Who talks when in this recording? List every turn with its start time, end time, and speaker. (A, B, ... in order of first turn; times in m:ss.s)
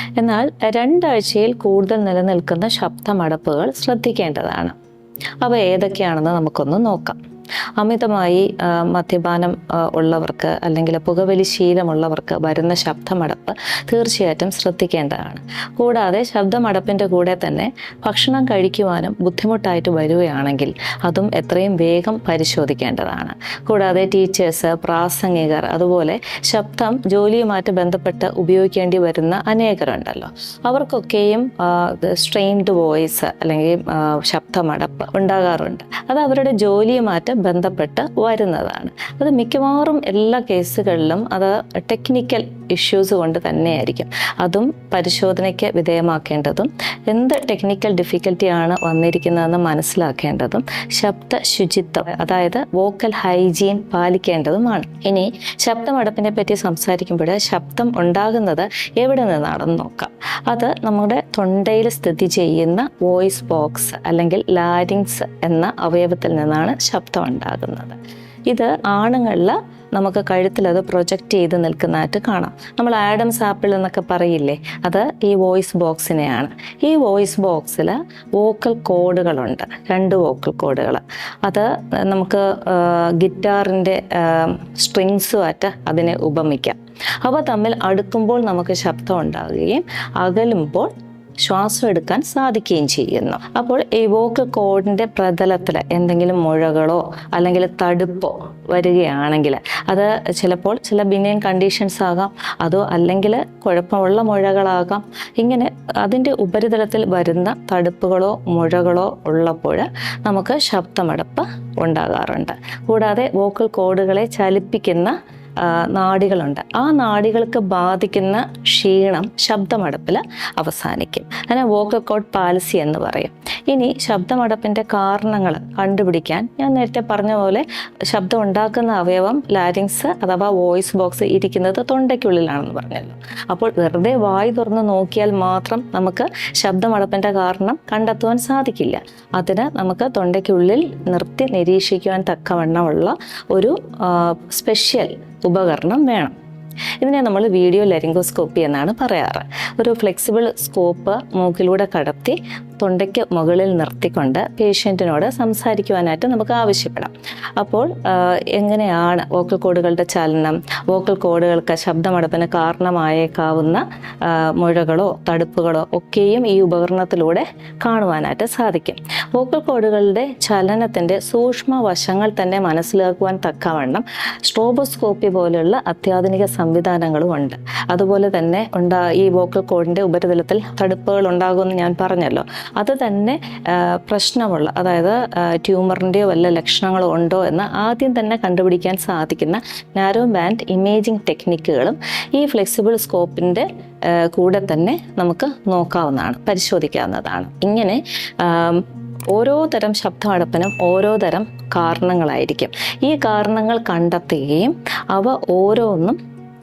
0:00.2-0:04.7 A
0:05.4-0:07.2 A
0:07.8-1:30.9 A
1:31.4-2:26.3 A
2:27.0-3:26.2 A